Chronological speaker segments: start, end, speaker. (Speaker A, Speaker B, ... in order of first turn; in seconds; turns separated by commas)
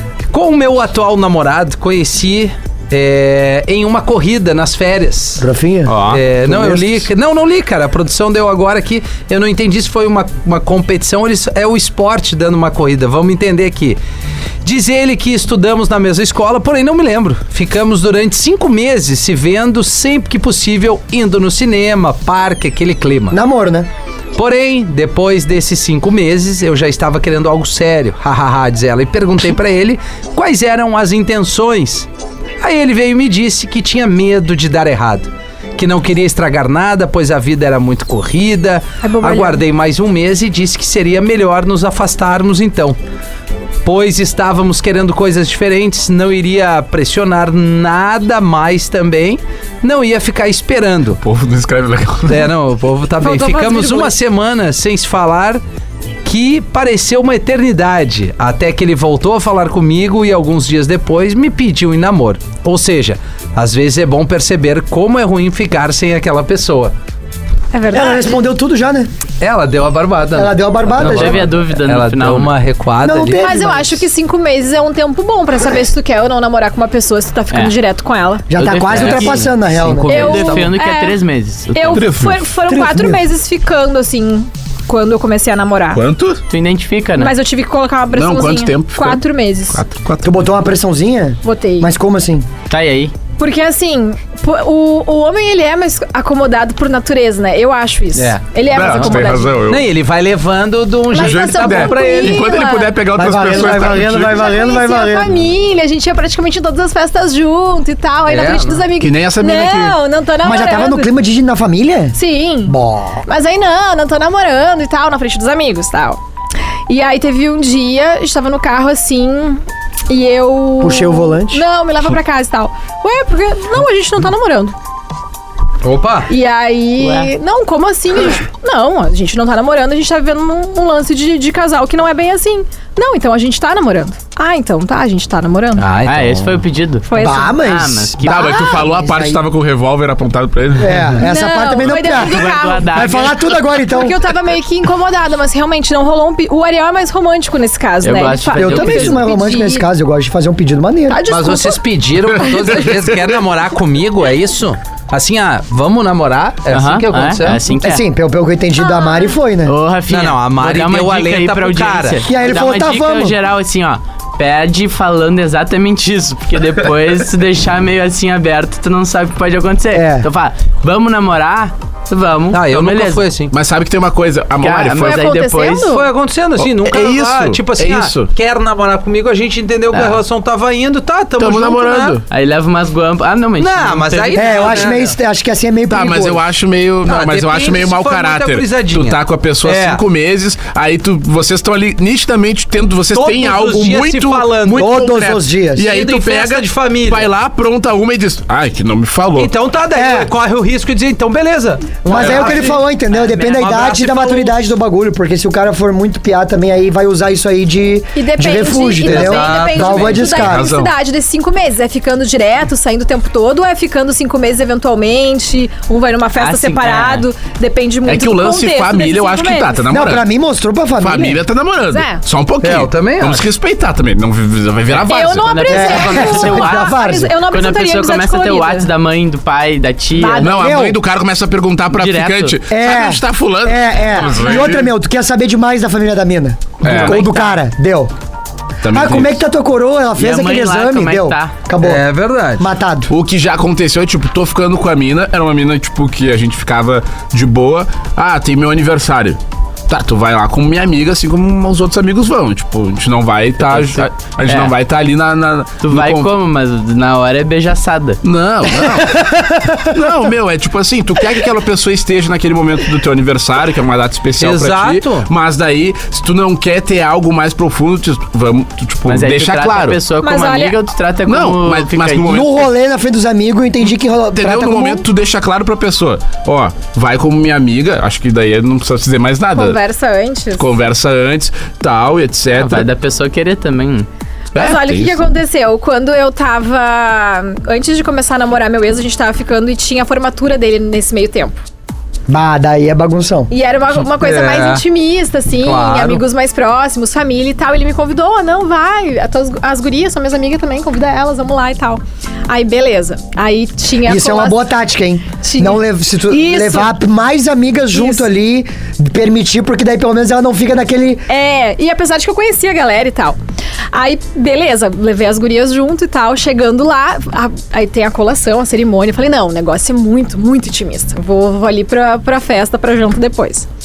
Speaker A: 0.3-5.5, Speaker B: 5.4-7.1, Speaker C: 5.9-6.2, Speaker A: 6.0-14.0, Speaker A: 14.7-23.4, Speaker B: 23.3-23.9, Speaker A: 24.4-32.1, Speaker A: 32.6-43.0, Speaker D: 39.0-39.6, Speaker A: 43.9-51.2, Speaker E: 51.2-52.5, Speaker A: 52.3-55.6, Speaker D: 53.2-54.1, Speaker A: 56.2-66.9, Speaker D: 67.7-68.5, Speaker B: 67.9-69.1, Speaker A: 69.4-73.7, Speaker B: 70.3-71.5, Speaker C: 71.0-72.5, Speaker B: 73.0-74.0, Speaker D: 73.4-78.5, Speaker B: 78.5-80.3, Speaker C: 78.5-79.5, Speaker A: 78.9-80.7, Speaker C: 80.1-82.0, Speaker D: 80.1-81.2, Speaker D: 81.7-86.0, Speaker E: 81.9-82.5, Speaker B: 82.7-83.2, Speaker E: 85.9-86.4, Speaker C: 86.5-87.3, Speaker D: 87.2-89.8, Speaker E: 88.1-90.4, Speaker B: 90.2-92.5, Speaker D: 91.4-91.9, Speaker C: 92.7-93.1, Speaker D: 93.4-99.6, Speaker A: 98.2-102.5, Speaker E: 98.7-99.9, Speaker D: 101.1-103.0, Speaker E: 101.1-104.5, Speaker B: 103.2-105.3, Speaker D: 103.8-111.1, Speaker A: 108.3-108.9, Speaker E: 109.0-110.0, Speaker B: 110.4-113.2, Speaker D: 112.2-116.2, Speaker D: 116.9-124.8, Speaker B: 120.8-121.6, Speaker A: 125.8-126.3, Speaker D: 126.3-135.9, Speaker C: 127.0-127.3, Speaker A: 135.8-136.7, Speaker C: 136.1-138.8, Speaker D: 137.1-137.6, Speaker B: 137.2-139.4, Speaker E: 138.2-141.1, Speaker B: 140.8-144.3, Speaker D: 141.2-149.9, Speaker C: 142.1-143.3, Speaker C: 148.0-149.2, Speaker B: 148.6-151.2, Speaker D: 151.1-151.8, Speaker A: 151.3-157.6, Speaker D: 152.4-152.9, Speaker C: 156.7-158.1, Speaker B: 157.8-159.8, Speaker D: 158.8-159.4, Speaker C: 159.7-173.2, Speaker A: 160.1-162.3, Speaker B: 162.3-163.4, Speaker B: 169.9-170.3, Speaker A: 172.5-173.5, Speaker E: 173.5-175.3, Speaker C: 174.6-175.9, Speaker D: 175.0-176.1, Speaker A: 175.9-182.2, Speaker E: 176.6-178.3, Speaker C: 179.9-180.2, Speaker E: 181.4-182.2, Speaker C: 182.3-184.8, Speaker A: 183.6-185.1, Speaker B: 184.3-186.4, Speaker E: 185.9-199.5, Speaker A: 187.1-190.0, Speaker A: 193.1-194.9, Speaker B: 194.8-195.9, Speaker A: 195.9-197.3, Speaker A: 199.4-204.7, Speaker B: 199.9-200.3, Speaker B: 202.1-210.7, Speaker E: 202.1-202.7, Speaker D: 208.2-220.0, Speaker A: 209.0-210.4, Speaker E: 210.2-210.9, Speaker C: 216.4-217.3, Speaker E: 218.1-220.3, Speaker B: 219.9-221.4, Speaker E: 221.0-225.7, Speaker D: 221.9-222.2, Speaker A: 222.6-223.4, Speaker C: 224.9-226.9, Speaker D: 225.0-228.9, Speaker B: 225.7-227.4, Speaker C: 227.5-230.5, Speaker D: 230.1-230.8, Speaker E: 230.4-234.9, Speaker B: 230.6-231.0, Speaker C: 231.9-232.6, Speaker B: 232.7-238.1, Speaker E: 236.8-237.2, Speaker C: 236.8-237.6, Speaker E: 238.8-239.4, Speaker B: 238.9-242.0, Speaker C: 240.2-241.5, Speaker A: 241.8-242.7, Speaker B: 242.6-243.1, Speaker E: 243.1-256.3, Speaker C: 253.7-254.7, Speaker C: 255.8-258.2, Speaker E: 258.2-270.0, Speaker B: 259.0-259.3, Speaker A: 264.4-265.3, Speaker C: 269.1-272.4, Speaker D: 270.2-270.8, Speaker E: 271.3-272.7, Speaker B: 272.2-275.1, Speaker E: 274.3-279.8, Speaker D: 279.5-280.7, Speaker E: 280.6-282.9, Speaker C: 282.5-284.1, Speaker E: 284.6-285.3, Speaker D: 284.6-291.6, Speaker B: 292.3-293.5, Speaker D: 293.5-304.7, Speaker A: 294.1-294.8, Speaker A: 295.6-296.2, Speaker B: 304.1-311.2, Speaker D: 305.4-307.0, Speaker D: 307.9-308.3, Speaker D: 311.3-313.4, Speaker D: 313.9-323.7